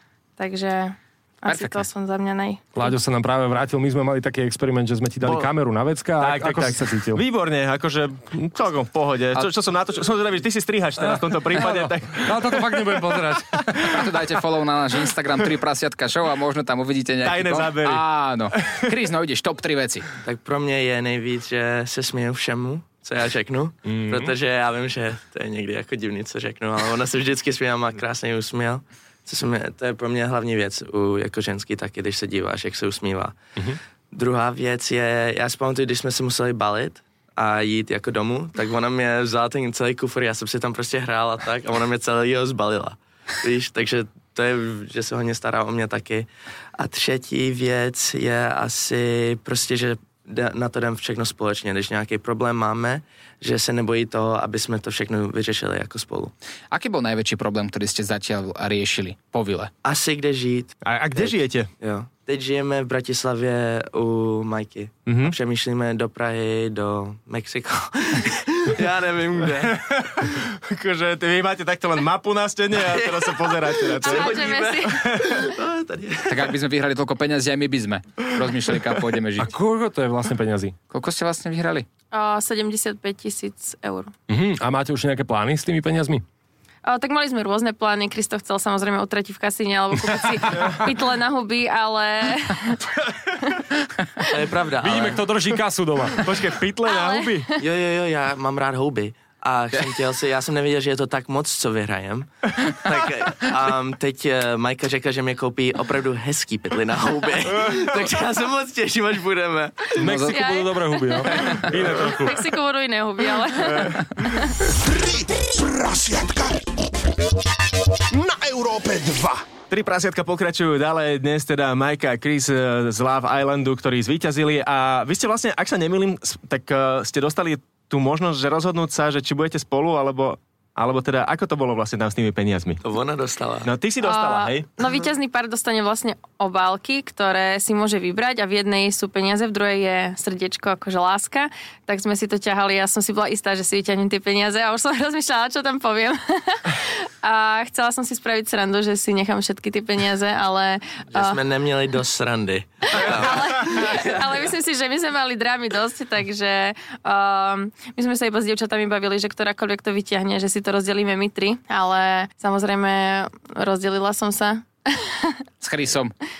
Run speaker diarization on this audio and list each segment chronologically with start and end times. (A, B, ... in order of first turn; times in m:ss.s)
0:00.4-0:03.0 A
0:01.5-0:01.9 B
0:02.8-0:07.2 C
0:05.2-0:05.5 D
0:06.2-0:13.8 D
0:11.1-0:14.1 C
0:13.8-0:20.1 B
0:17.2-0:18.9 D
0:20.2-0:33.4 E
0:23.9-0:24.3 C
0:34.1-0:56.3 E
0:56.7-0:59.7 B
0:59.8-1:10.1 E
1:00.8-1:01.7 D
1:05.1-1:05.4 D
1:09.6-1:15.2 D
1:12.8-1:16.5 E
1:14.0-1:15.0 A
1:16.3-1:19.5 B
1:19.4-1:20.8 C
1:20.9-1:21.9 B
1:22.1-1:24.1 A
1:24.3-1:26.2 C
1:26.8-1:32.8 A
1:34.3-1:35.2 E
1:34.8-1:36.3 C
1:36.2-1:37.5 D
1:36.9-1:37.5 A
1:37.6-1:50.0 E
1:50.0-1:52.5 C
1:50.0-1:50.4 B
1:50.2-1:54.5 A
1:54.6-1:56.7 F
1:58.1-1:59.5 F
1:59.7-2:12.8 D
2:12.8-2:13.7 E
2:13.6-2:14.7 D
2:14.0-2:31.4 A
2:31.1-2:34.2 E
2:32.9-2:45.4 A
2:45.6-2:46.1 B